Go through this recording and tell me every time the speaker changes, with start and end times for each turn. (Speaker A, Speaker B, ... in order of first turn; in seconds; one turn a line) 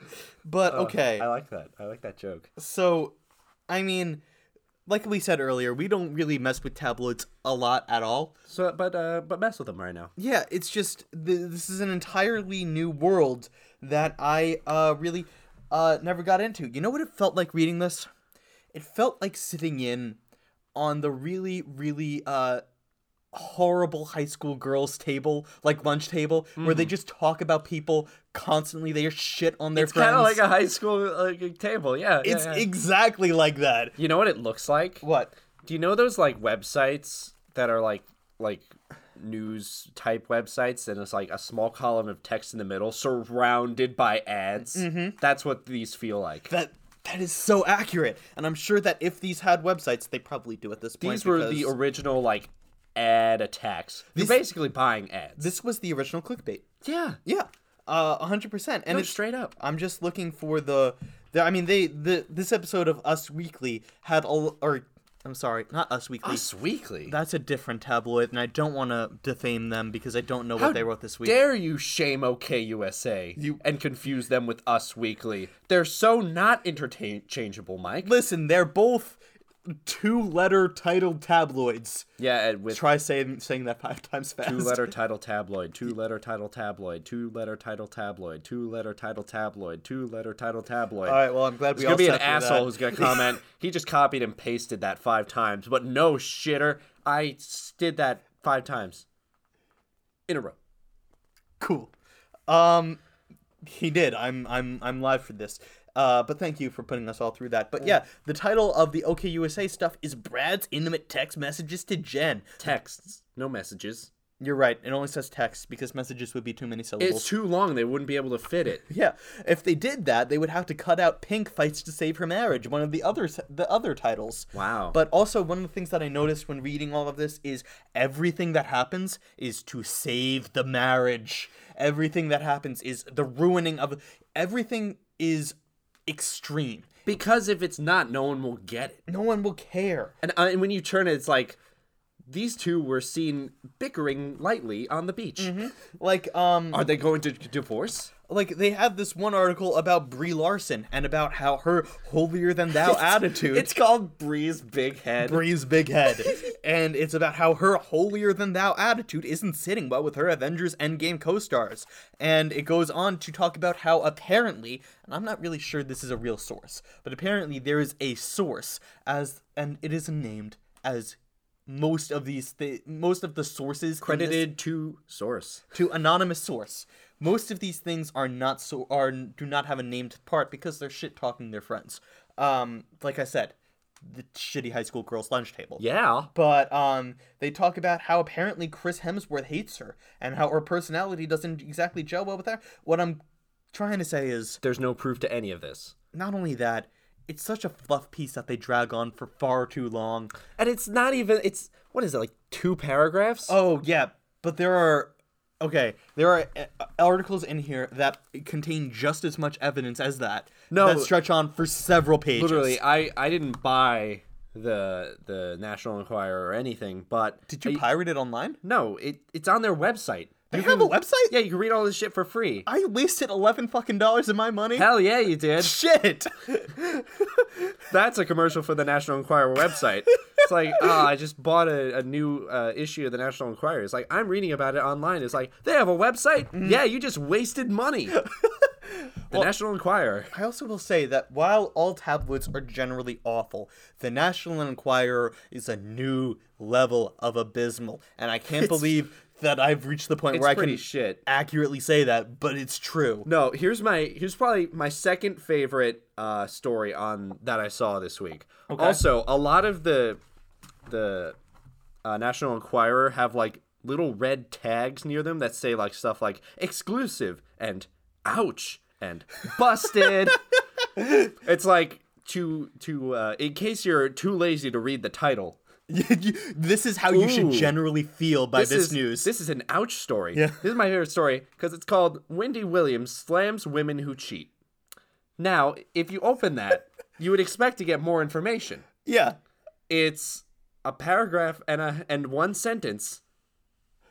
Speaker A: 0.4-1.2
Speaker B: 0.7-2.5
Speaker A: 2.6-3.1
Speaker A: 3.7-4.2
Speaker A: 4.9-8.3
Speaker B: 8.5-10.1
Speaker A: 10.2-18.1
Speaker A: 18.7-20.2
Speaker A: 20.7-22.6
Speaker A: 23.3-30.4
Speaker B: 26.6-26.9
Speaker B: 29.8-32.7
Speaker A: 32.2-34.0
Speaker B: 34.0-35.0
Speaker A: 35.0-35.3
Speaker B: 35.6-46.5
Speaker A: 44.7-45.2
Speaker A: 46.5-51.7
Speaker B: 51.0-55.5
Speaker A: 54.1-54.4
Speaker A: 55.4-56.6
Speaker B: 56.8-57.2
Speaker A: 57.2-66.4
Speaker B: 58.9-59.5
Speaker B: 66.2-67.1
Speaker A: 67.0-71.4
Speaker B: 70.6-78.1
Speaker A: 78.0-82.1
Speaker B: 82.2-82.8
Speaker A: 82.7-84.9
Speaker B: 84.4-91.2
Speaker A: 91.0-93.4
Speaker B: 91.7-99.0
Speaker B: 100.3-100.5
Speaker A: 101.6-101.9
Speaker A: 102.5-103.0
Speaker A: 103.6-112.5
Speaker B: 112.6-114.1
Speaker A: 114.4-117.3
Speaker B: 117.0-118.8
Speaker A: 118.9-135.6
Speaker B: 124.5-125.0
Speaker A: 136.1-136.9
Speaker B: 137.1-139.0
Speaker A: 139.1-140.1
Speaker B: 140.2-141.6
Speaker B: 142.2-145.5
Speaker A: 145.4-146.8
Speaker B: 146.7-148.1
Speaker A: 148.3-153.7
Speaker B: 152.7-155.4
Speaker A: 155.2-171.2
Speaker A: 171.7-174.6
Speaker B: 174.0-175.6
Speaker A: 175.7-193.2
Speaker B: 185.8-186.3
Speaker A: 193.7-194.6
Speaker B: 194.6-195.9
Speaker A: 196.1-200.3
Speaker B: 200.6-203.5
Speaker A: 203.5-212.8
Speaker B: 210.7-211.1
Speaker B: 212.3-217.8
Speaker A: 217.5-218.6
Speaker B: 218.6-222.7
Speaker A: 220.5-221.3
Speaker A: 222.7-224.9
Speaker B: 224.8-225.7
Speaker A: 225.6-227.7
Speaker B: 227.9-238.2
Speaker A: 236.5-236.8
Speaker A: 239.0-239.5
Speaker B: 239.3-240.3
Speaker A: 240.3-253.3
Speaker B: 250.3-251.2
Speaker B: 253.2-260.2
Speaker A: 258.7-259.0
Speaker B: 260.9-261.4
Speaker B: 262.0-270.4
Speaker B: 271.3-275.6
Speaker A: 275.9-279.3
Speaker B: 277.1-277.8
Speaker B: 278.5-284.5
Speaker A: 280.3-280.6
Speaker B: 285.4-288.9
Speaker A: 289.0-289.4
Speaker B: 289.9-293.2